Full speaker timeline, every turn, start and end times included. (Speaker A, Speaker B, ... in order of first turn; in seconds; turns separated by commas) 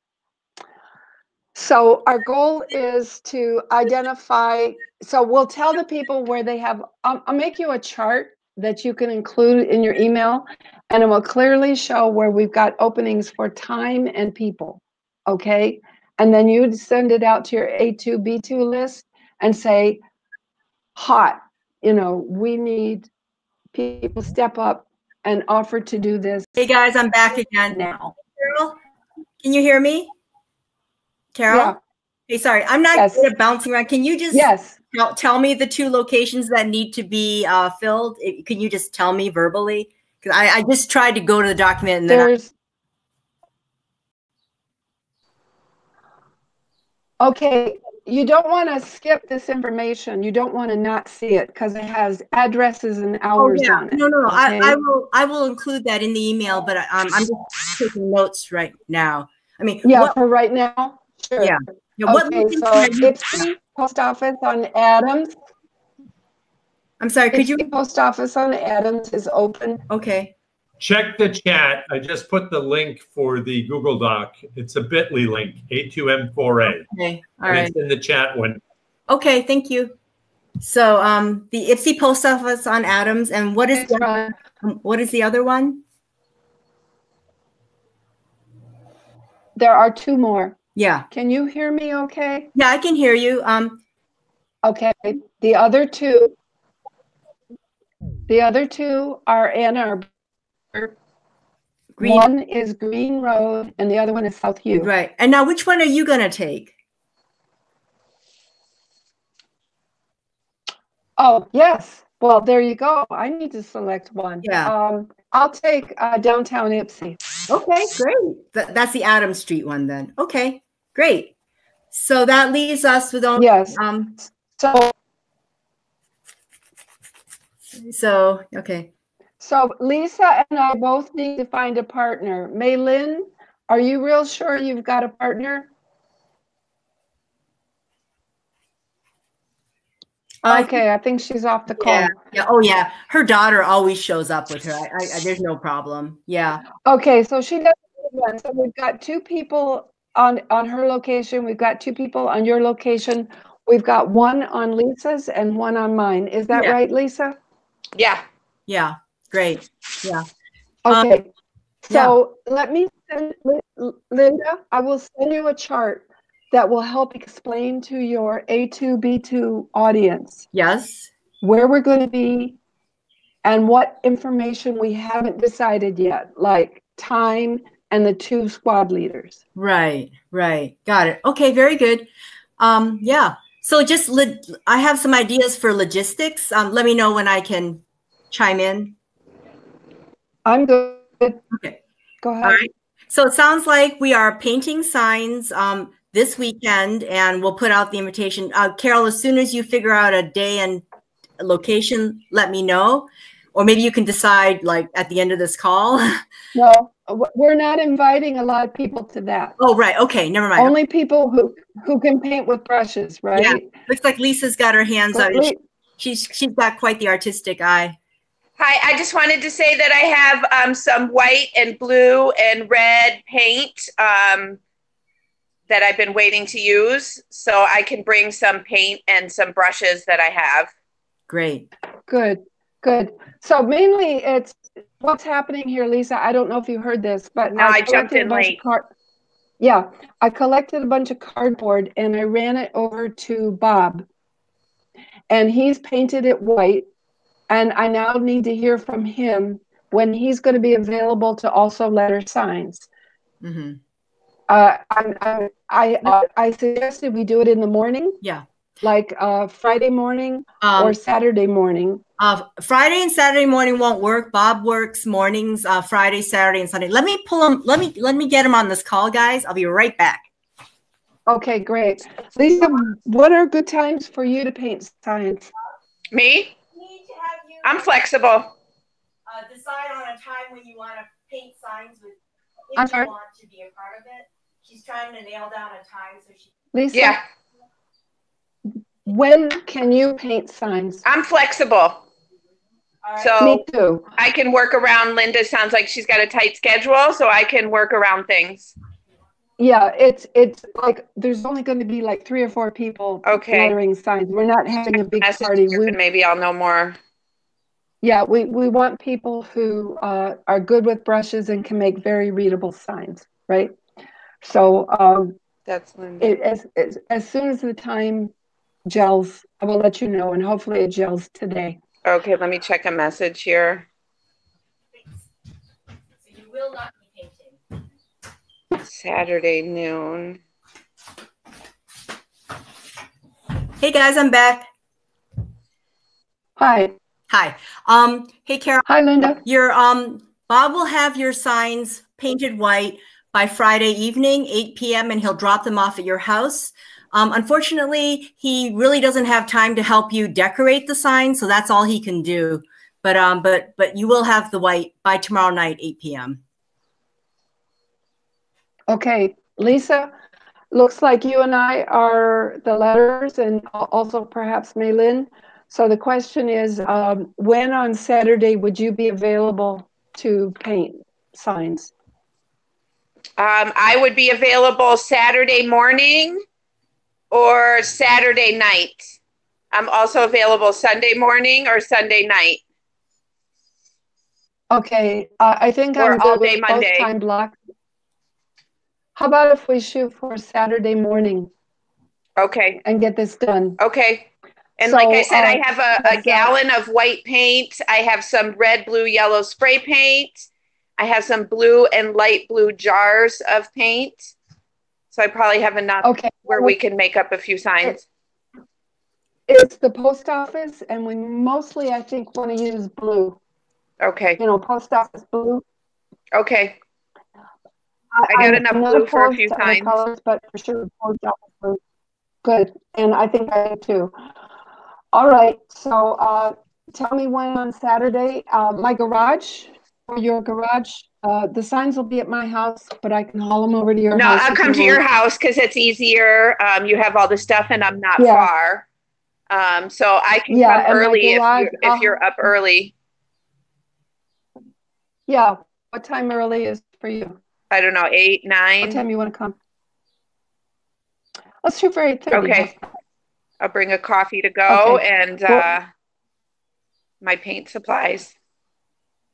Speaker A: 1.6-20.0, Speaker A: 21.0-23.1, Speaker A: 23.7-26.6, Speaker B: 26.6-28.8, Speaker A: 27.7-28.1, Speaker B: 29.4-30.1, Speaker B: 31.3-31.8, Speaker A: 31.5-31.8, Speaker B: 32.3-42.3, Speaker A: 32.9-33.2, Speaker A: 34.3-34.8, Speaker A: 42.1-42.5, Speaker A: 47.2-54.8, Speaker B: 53.4-60.2, Speaker A: 59.8-65.3, Speaker B: 61.4-63.5, Speaker B: 67.0-67.7, Speaker A: 67.3-69.8, Speaker B: 69.9-70.3, Speaker C: 70.8-76.9, Speaker B: 76.9-77.8, Speaker C: 77.5-78.6, Speaker B: 79.1-80.0, Speaker B: 80.6-85.8, Speaker A: 83.7-84.3, Speaker A: 89.6-90.6, Speaker B: 90.8-91.1, Speaker A: 91.1-92.5, Speaker B: 92.5-93.8, Speaker A: 94.6-96.3, Speaker A: 98.3-100.1, Speaker B: 102.0-102.3, Speaker A: 102.0-104.9, Speaker B: 104.8-106.7, Speaker A: 111.2-117.2, Speaker B: 114.4-114.7, Speaker B: 117.5-121.3, Speaker B: 121.9-124.2, Speaker A: 123.4-124.9, Speaker B: 127.8-128.9, Speaker A: 129.4-135.7, Speaker A: 140.4-142.2, Speaker B: 140.5-140.8, Speaker B: 141.8-146.6, Speaker A: 146.8-157.4, Speaker D: 158.0-158.2, Speaker B: 158.7-160.3, Speaker A: 160.8-161.3, Speaker A: 161.9-170.4, Speaker B: 161.9-162.2, Speaker B: 170.5-171.1, Speaker A: 171.4-172.6, Speaker A: 173.4-179.4, Speaker B: 179.6-188.9, Speaker A: 190.5-191.4, Speaker B: 191.5-191.8, Speaker A: 192.2-192.7, Speaker B: 192.4-200.8, Speaker B: 201.4-206.2, Speaker A: 206.5-209.6, Speaker B: 209.6-210.7, Speaker A: 210.6-213.7, Speaker B: 213.3-218.0, Speaker A: 215.1-215.6, Speaker D: 218.6-224.6, Speaker D: 225.7-230.7, Speaker B: 231.3-231.7, Speaker A: 232.1-238.9, Speaker D: 237.5-238.6, Speaker A: 239.6-244.1, Speaker A: 245.3-246.8, Speaker A: 247.5-252.9, Speaker B: 253.4-253.8, Speaker A: 254.5-258.2, Speaker A: 258.8-262.0, Speaker B: 260.6-261.0, Speaker B: 262.2-270.3, Speaker A: 271.3-275.5, Speaker D: 276.1-276.6, Speaker B: 276.7-277.9, Speaker D: 277.6-278.5, Speaker B: 279.3-282.2, Speaker B: 282.7-286.5, Speaker A: 282.8-283.1, Speaker A: 286.7-287.2, Speaker D: 286.9-287.2, Speaker A: 289.1-291.0, Speaker D: 291.0-292.0, Speaker B: 293.0-293.4, Speaker D: 293.2-293.6, Speaker A: 293.4-294.1, Speaker D: 294.2-298.7, Speaker A: 299.6-305.9, Speaker D: 303.2-303.8, Speaker D: 305.2-307.0, Speaker A: 308.0-313.8, Speaker A: 314.4-315.3, Speaker D: 315.7-316.3, Speaker A: 316.2-318.3, Speaker A: 318.9-321.8, Speaker D: 322.0-323.9, Speaker B: 326.2-327.6, Speaker D: 328.8-330.4, Speaker B: 333.8-334.7, Speaker A: 336.6-336.9, Speaker B: 337.3-338.9, Speaker A: 338.9-339.4, Speaker B: 339.4-356.4, Speaker A: 358.9-360.1, Speaker A: 360.7-371.9, Speaker D: 373.4-376.4, Speaker D: 377.3-379.1, Speaker D: 379.7-382.6, Speaker A: 384.7-387.6, Speaker D: 386.0-387.1, Speaker A: 389.2-391.5, Speaker D: 392.4-392.8, Speaker A: 392.8-393.8, Speaker D: 393.8-404.3, Speaker A: 394.8-396.5, Speaker D: 405.1-408.0, Speaker A: 406.0-406.8, Speaker A: 409.5-413.4, Speaker D: 414.0-414.4, Speaker A: 414.4-415.6, Speaker D: 416.3-416.8, Speaker A: 418.1-421.8, Speaker D: 418.3-419.9, Speaker A: 422.4-424.1, Speaker A: 425.1-435.0, Speaker D: 434.1-438.9, Speaker A: 438.2-438.5, Speaker D: 439.5-442.9, Speaker A: 440.5-442.2, Speaker A: 445.3-447.4, Speaker D: 447.7-449.0, Speaker A: 448.8-449.6, Speaker A: 451.6-452.8, Speaker D: 452.3-452.7, Speaker D: 453.6-455.9, Speaker A: 454.7-455.7, Speaker D: 457.2-458.3